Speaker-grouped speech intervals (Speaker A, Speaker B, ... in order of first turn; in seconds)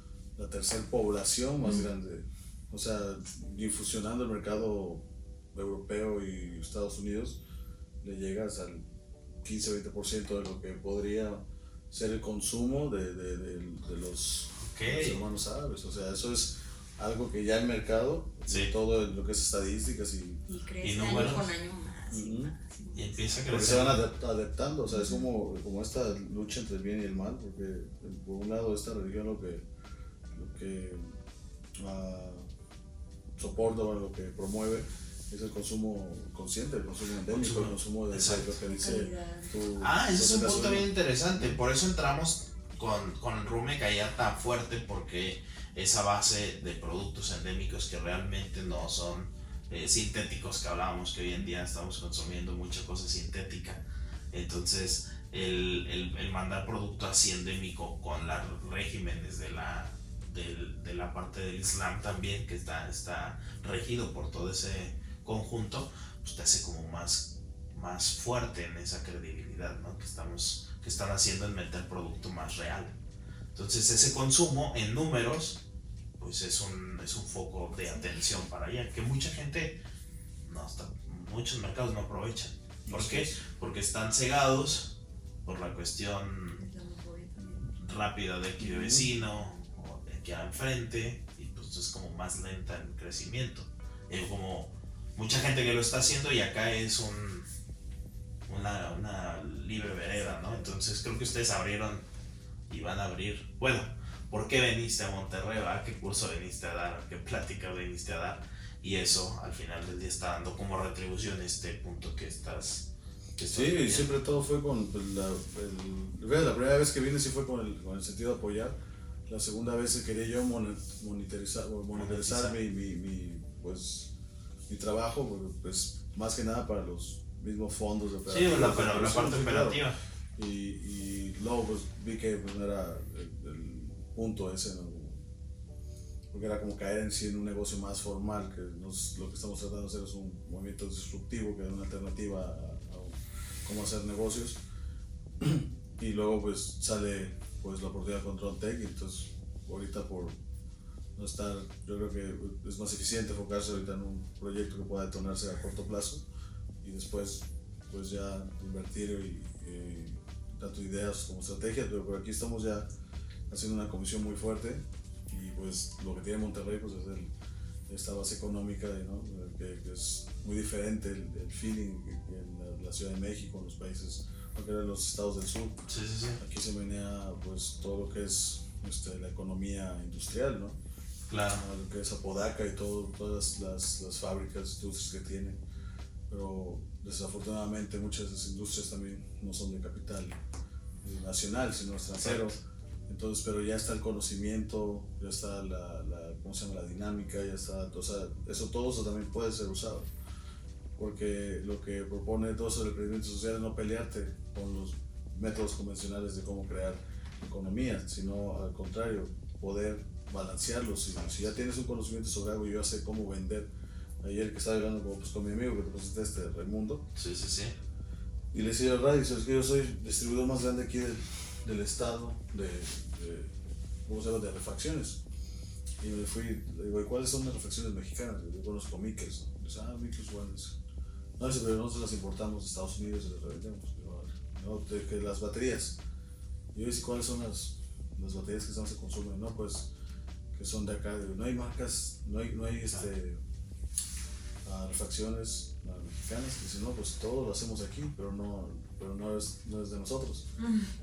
Speaker A: 0.3-7.4, 8.0-8.8, 9.4-20.4, 22.1-22.5, 23.5-29.6, 30.3-31.1, 31.8-32.5, 33.4-41.5, 82.8-83.4, 88.7-89.1, 113.5-118.8, 119.3-124.1, 124.7-129.8, 130.4-135.2, 136.3-144.6, 145.4-150.4, 151.2-156.2, 156.8-162.9, 163.5-167.3, 167.9-175.8, 176.4-180.8, 181.5-185.6, 186.3-190.4, 191.0-200.1, 201.0-213.7, 214.2-217.0, 218.5-225.2, 226.0-230.8, 231.4-236.0, 236.7-239.9, 240.5-243.4, 244.6-250.5
Speaker B: 14.6-15.2, 20.8-21.5, 22.9-24.0, 37.3-38.5, 39.8-73.0, 73.5-75.6, 76.2-79.8, 80.4-86.6, 87.8-97.5, 98.5-102.0, 102.7-114.1, 121.9-122.5, 128.3-130.0, 175.9-176.4, 181.3-181.6, 192.2-192.6, 217.2-217.7
Speaker C: 20.5-23.2, 24.9-25.2, 38.6-39.7, 86.6-87.7, 250.6-250.9